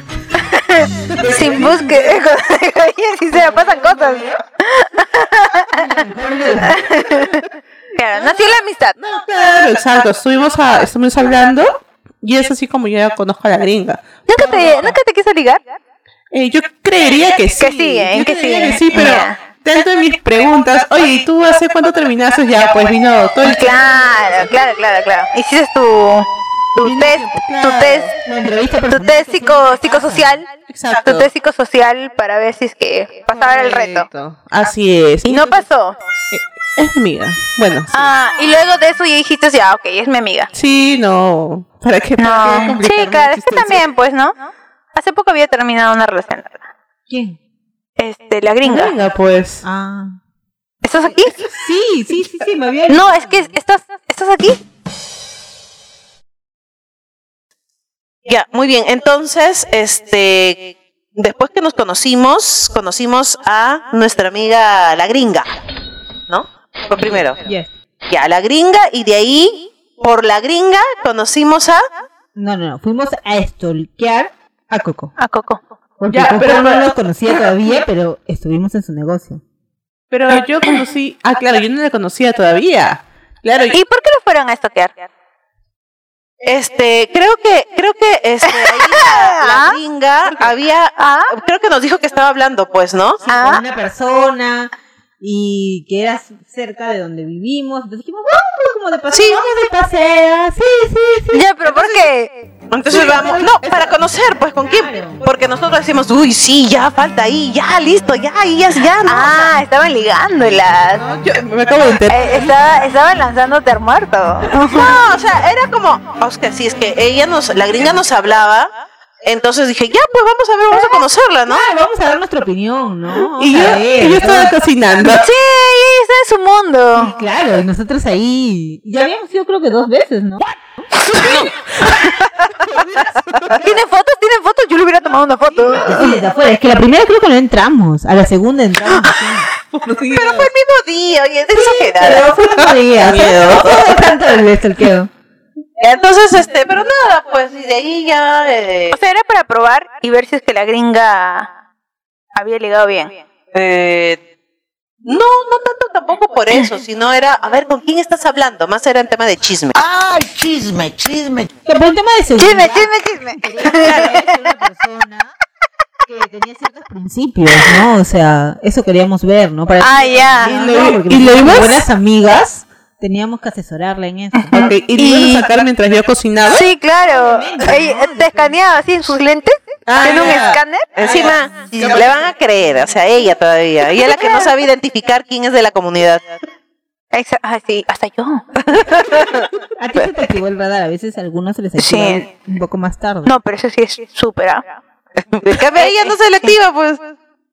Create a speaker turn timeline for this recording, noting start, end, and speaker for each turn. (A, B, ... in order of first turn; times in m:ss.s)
0:00.4-0:05.9 A
0:01.1-0:02.1 B
0:05.7-0:06.8 C
0:06.6-0:08.9 A
0:09.0-0:14.6 B
0:14.3-0:15.6 A
0:16.3-0:24.4 B
0:17.6-0:19.4 A
0:23.4-0:28.1 A
0:26.8-0:28.1 B
0:28.2-0:30.4 C
0:28.9-0:30.5 A
0:30.7-0:31.3 B
0:31.0-0:34.1 A
0:33.3-0:35.6 B
0:35.2-0:36.0 A
0:36.3-0:38.1 B
0:37.9-0:40.5 A
0:40.5-0:43.8 B
0:42.2-0:44.4 A
0:44.9-0:46.6 A
0:47.1-0:47.4 C
0:48.0-0:49.0 A
0:48.6-0:49.6 B
0:49.6-0:50.2 C
0:50.8-0:51.5 A
0:51.5-0:53.5 C
0:52.9-0:54.6 A
0:58.2-1:05.6 D
1:06.3-1:07.4 D
1:07.0-1:07.7 C
1:08.1-1:11.8 D
1:12.4-1:15.1 C
1:15.2-1:15.6 A
1:16.0-1:19.4 C
1:16.1-1:16.9 B
1:20.1-1:23.8 B
1:23.7-1:25.1 A
1:26.4-1:33.2 D
1:28.5-1:29.8 A
1:30.2-1:30.5 B
1:31.0-1:31.3 A
1:33.3-1:41.4 C
1:33.3-1:33.6 A
1:39.1-1:39.4 D
1:41.3-1:42.5 A
1:41.7-1:42.0 D
1:42.7-1:49.5 D
1:42.9-1:43.9 B
1:42.9-1:43.4 C
1:44.7-1:45.2 C
1:48.8-1:51.1 A
1:51.0-1:52.5 B
1:52.1-1:55.0 A
1:54.7-1:58.7 D
1:59.2-2:01.6 D
2:00.7-2:01.0 A
2:01.5-2:04.5 C
2:03.4-2:05.2 B
2:05.1-2:07.1 A
2:07.0-2:10.9 C
2:11.2-2:11.5 B
2:12.6-2:13.7 B
2:13.5-2:16.2 A
2:15.8-2:19.5 C
2:19.7-2:20.5 B
2:20.1-2:22.3 D
2:21.6-2:25.1 C
2:22.6-2:24.1 B
2:25.8-2:29.0 D
2:28.9-2:31.5 A
2:32.4-2:33.1 A
2:33.5-2:34.2 D
2:35.0-2:40.0 D
2:41.7-2:45.3 C
2:42.4-2:44.4 A
2:46.0-2:54.6 C
2:49.8-2:50.6 A
2:50.4-2:51.9 B
2:54.4-2:55.4 A
2:54.5-2:56.7 B
2:56.4-3:00.9 A
2:57.0-2:58.6 C
2:59.9-3:02.2 B
3:01.0-3:06.2 D
3:04.0-3:04.5 A
3:07.1-3:08.4 A
3:08.7-3:10.1 D
3:09.8-3:13.3 C
3:11.8-3:12.3 A
3:13.2-3:14.6 A
3:15.3-3:17.1 D